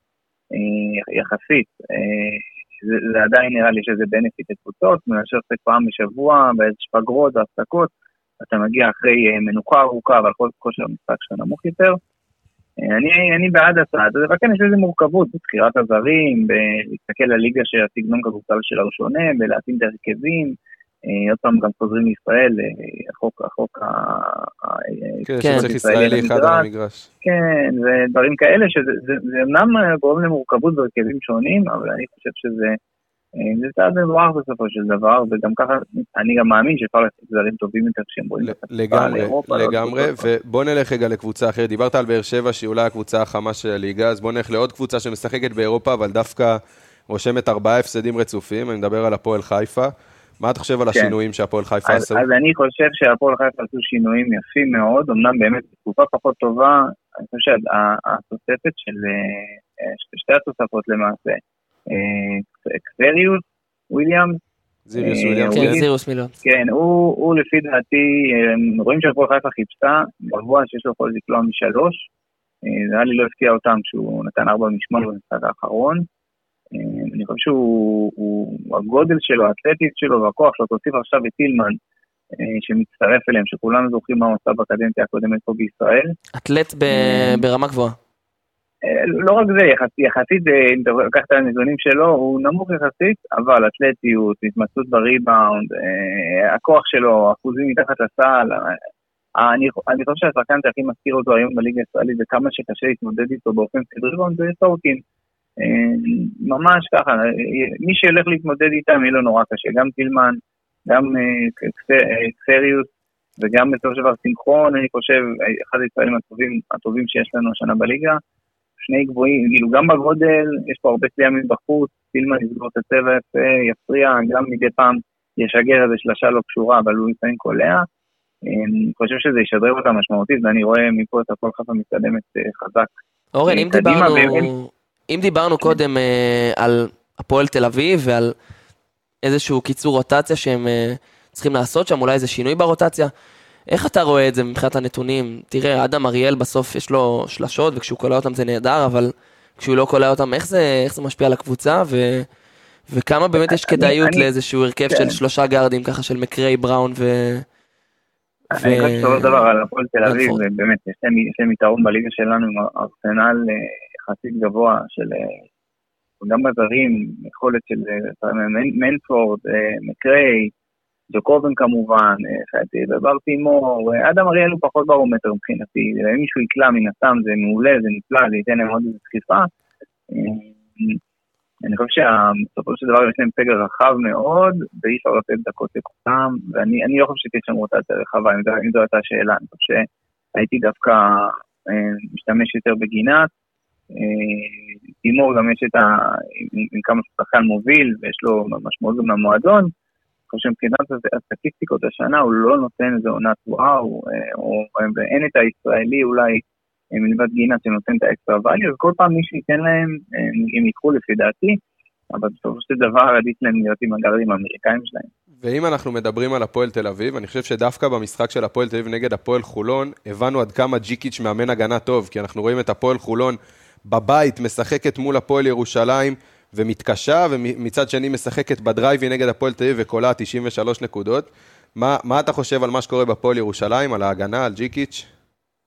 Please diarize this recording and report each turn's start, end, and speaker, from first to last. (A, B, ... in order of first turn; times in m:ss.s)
0:00.5-0:12.0 A
0:12.8-0:26.7 A
0:25.2-0:27.1 B
0:25.4-0:25.7 C
0:27.2-0:32.8 A
0:33.4-0:40.3 A
0:38.4-0:52.2 B
0:51.9-1:04.4 A
1:04.9-1:05.8 B
1:05.0-1:05.8 A
1:05.5-1:06.3 C
1:06.4-1:12.0 A
1:12.6-1:16.1 A
1:16.7-1:21.8 A
1:22.4-1:26.1 A
1:26.4-1:28.0 C
1:26.9-1:27.4 A
1:28.8-1:38.8 A
1:39.4-1:45.0 A
1:45.6-1:58.2 A
1:58.8-2:07.9 A
2:08.4-2:12.9 A
2:13.4-2:18.3 C
2:13.5-2:14.5 A
2:19.2-2:23.1 C
2:23.7-2:32.3 C
2:32.9-2:37.4 C
2:33.4-2:34.3 A
2:34.9-2:35.2 A
2:38.5-2:39.5 C
2:38.6-2:45.4 A
2:40.0-2:40.4 C
2:46.2-2:50.5 A
2:51.1-2:59.5 A
3:00.1-3:01.0 A
3:01.6-3:13.3 A
3:13.9-3:19.7 A
3:20.3-3:31.6 A
3:32.1-3:35.1 A
3:35.4-3:55.1 B